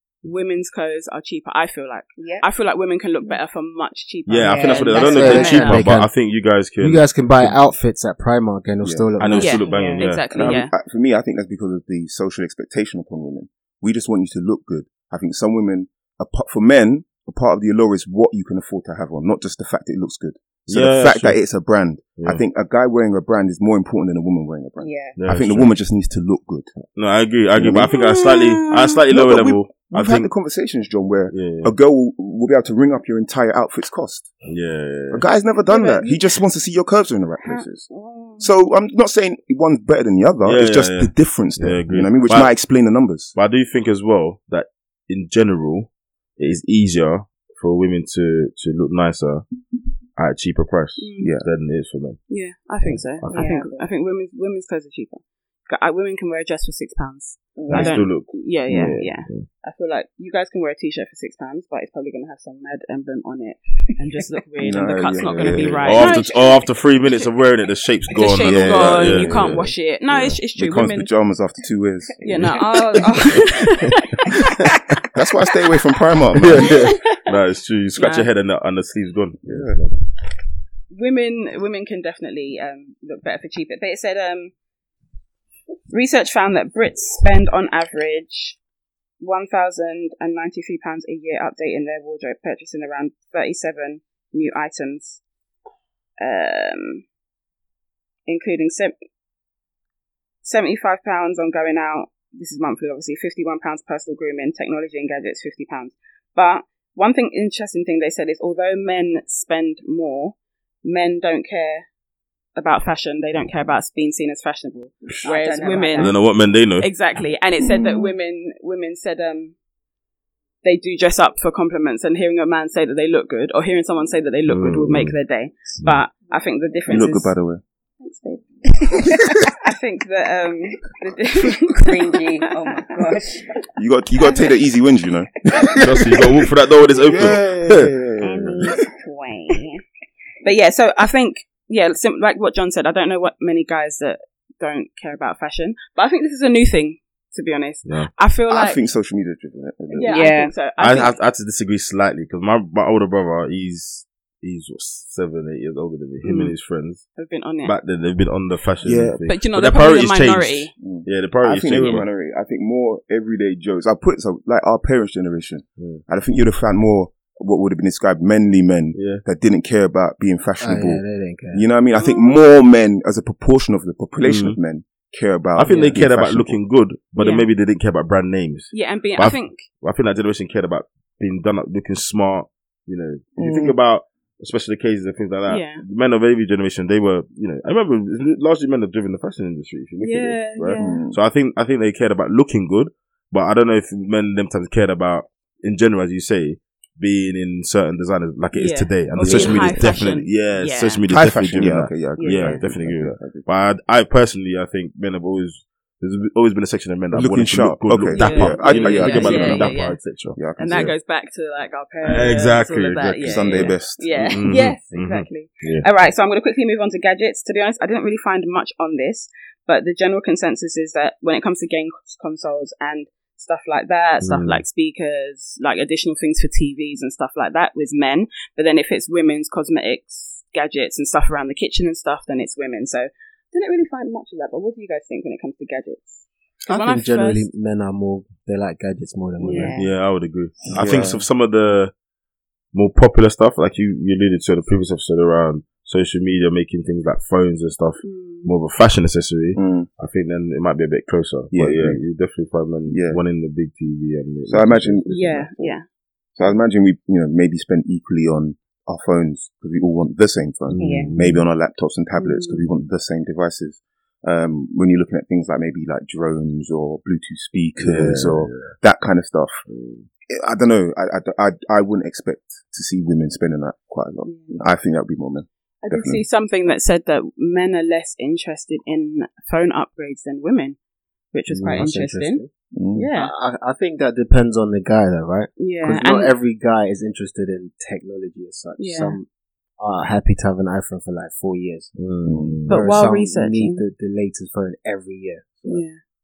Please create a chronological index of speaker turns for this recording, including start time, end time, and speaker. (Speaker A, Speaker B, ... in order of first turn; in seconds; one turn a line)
Speaker A: 0.2-5.8
Speaker B: 2.2-2.5
Speaker C: 4.3-7.6
Speaker B: 4.5-5.8
Speaker D: 4.9-6.1
Speaker D: 6.8-9.6
Speaker C: 9.2-10.6
Speaker A: 9.3-10.7
Speaker B: 9.6-10.1
Speaker E: 10.3-26.7
Speaker C: 20.7-21.4
Speaker C: 22.2-22.4
Speaker B: 24.8-25.2
Speaker C: 25.2-25.7
Speaker C: 26.9-30.3
Speaker E: 27.6-27.9
Speaker A: 27.9-29.0
Speaker E: 29.1-34.3
Speaker C: 31.3-31.8
Speaker C: 34.5-35.2
Speaker E: 35.1-43.4
Speaker A: 35.7-36.4
Speaker A: 37.4-38.5
Speaker C: 40.4-42.5
Speaker C: 43.4-49.5
Speaker C: 50.2-52.2
Speaker A: 51.0-51.3
Speaker E: 51.2-51.5
Speaker A: 52.3-66.6
Speaker C: 52.9-53.4
Speaker B: 53.3-53.9
Speaker B: 57.6-58.0
Speaker C: 57.7-59.5
Speaker E: 64.6-66.2
Speaker C: 65.4-70.4
Speaker A: 68.1-71.1
Speaker E: 68.4-69.6
Speaker E: 70.6-72.6
Speaker A: 72.2-74.1
Speaker E: 75.1-76.8
Speaker C: 76.3-80.0
Speaker A: 78.0-78.3
Speaker E: 79.5-79.8
Speaker A: 80.9-84.5
Speaker A: 85.9-88.6
Speaker A: 89.2-95.2
Speaker A: 96.2-97.0
Speaker A: 98.3-98.9
Speaker A: 100.4-111.9
Speaker A: 112.6-116.2
Speaker B: 115.2-116.2
Speaker C: 116.0-116.9
Speaker A: 116.8-119.5
Speaker A: 120.6-127.3
Speaker C: 124.5-125.2
Speaker E: 126.9-127.6
Speaker A: 128.0-132.8
Speaker B: 131.7-133.6
Speaker E: 133.8-136.2
Speaker C: 135.7-137.9
Speaker E: 137.1-138.8
Speaker A: 138.2-139.8
Speaker A: 140.4-148.8
Speaker C: 147.8-148.1
Speaker E: 148.5-150.3
Speaker A: 149.9-151.2
Speaker B: 150.0-150.5
Speaker C: 150.8-157.1
Speaker A: 156.2-156.6
Speaker A: 157.2-157.7
Speaker C: 157.6-162.1
Speaker E: 158.8-159.2
Speaker A: 159.3-160.7
Speaker E: 160.8-176.6
Speaker C: 165.8-166.0
Speaker C: 168.9-169.2
Speaker D: 170.6-171.7
Speaker A: 171.9-172.4
Speaker C: 174.2-174.6
Speaker C: 175.6-210.9
Speaker A: 177.2-177.5
Speaker A: 178.7-179.6
Speaker E: 183.4-183.8
Speaker A: 185.5-185.8
Speaker A: 190.0-191.0
Speaker E: 190.8-191.2
Speaker A: 198.5-201.0
Speaker E: 199.3-199.8
Speaker E: 201.1-203.5
Speaker A: 202.2-202.6
Speaker E: 207.1-209.8
Speaker A: 208.1-210.0
Speaker E: 210.3-210.9
Speaker A: 210.6-237.5
Speaker C: 212.0-215.9
Speaker E: 213.1-214.4
Speaker C: 224.2-224.6
Speaker D: 236.7-239.8
Speaker A: 239.4-239.9
Speaker C: 239.8-241.9
Speaker E: 240.8-241.2
Speaker C: 242.7-255.4
Speaker A: 248.0-248.5
Speaker E: 249.6-249.9
Speaker E: 251.5-252.0
Speaker E: 252.9-253.2
Speaker E: 254.5-255.8
Speaker A: 255.1-255.8
Speaker E: 256.4-269.6
Speaker C: 260.7-261.4
Speaker B: 260.8-261.1
Speaker A: 262.1-262.7
Speaker C: 267.8-268.8
Speaker C: 269.7-270.1
Speaker E: 270.3-276.2
Speaker A: 274.2-274.6
Speaker A: 275.8-280.8
Speaker A: 281.3-282.4
Speaker C: 281.5-281.9
Speaker D: 281.6-282.5
Speaker E: 282.7-283.1
Speaker A: 282.9-283.3
Speaker D: 283.1-289.3
Speaker A: 285.6-286.4
Speaker A: 288.8-289.2
Speaker D: 289.8-291.9
Speaker C: 292.0-292.8
Speaker E: 292.2-292.6
Speaker A: 292.7-293.8
Speaker D: 292.7-295.9
Speaker A: 295.6-296.0